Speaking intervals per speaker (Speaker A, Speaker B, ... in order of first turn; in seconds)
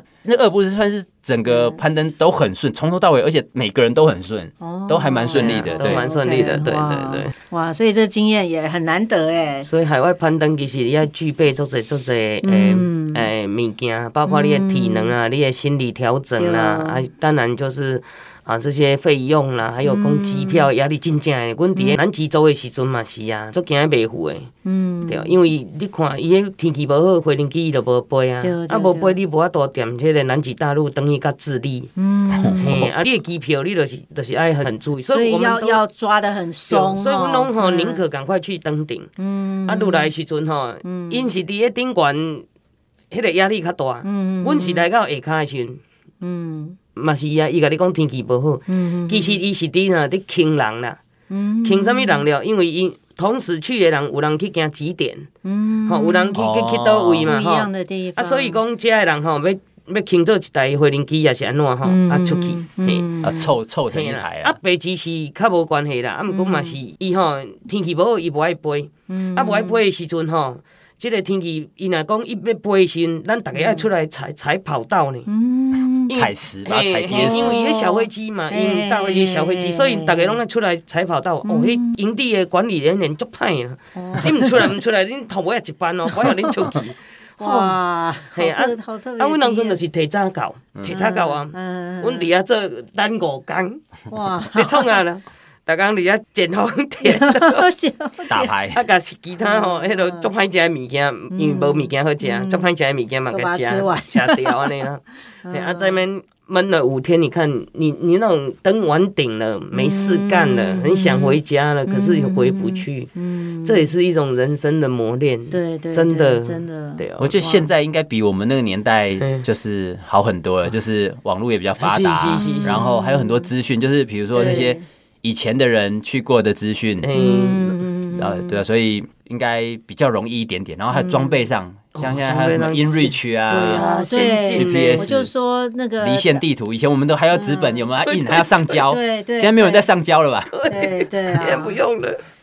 Speaker A: 0.2-6.0, 32.3-32.9, 56.3-57.3, 63.2-64.6, 76.1-77.6, 98.3-98.8, 117.2-127.1, 128.1-133.9, 134.5-135.3, 136.0-140.5
Speaker B: 1.4-1.8, 4.6-9.7, 12.4-13.3, 14.3-15.1, 16.4-17.0, 19.8-20.7, 24.6-25.4, 28.4-29.1, 32.0-32.9, 35.1-38.0, 39.2-40.1, 40.8-41.3, 44.0-44.9, 46.2-46.8, 48.7-49.4, 51.3-52.2, 55.4-56.3, 57.2-58.6, 61.8-63.6, 66.3-66.8, 69.1-69.8, 73.5-73.9, 75.3-76.1, 77.1-80.4, 81.4-81.9, 83.9-84.8, 86.1-86.8, 87.4-89.8, 90.8-92.3, 94.1-95.0, 97.0-98.5, 99.4-100.3, 101.3-102.7, 103.3-104.6, 105.4-106.0, 109.7-113.9, 115.5-117.7, 122.3-123.5, 124.3-124.8, 127.1-128.6, 130.9-131.5, 133.6-136.4, 137.3-138.0, 138.8-139.9, 140.7-141.8
Speaker C: 5.3-7.3, 9.6-24.5, 25.0-31.9, 32.6-35.8, 36.6-39.1, 39.6-42.4, 43.1-45.8, 46.9-51.0, 51.6-55.3, 55.9-63.1, 63.9-75.3, 76.1-87.8, 88.3-93.8, 94.5-97.7, 98.7-113.1, 113.6-117.3, 119.2-119.5, 121.8-122.8, 124.3-124.7, 127.0-127.9, 131.9-135.1, 138.1-138.5, 140.5-142.2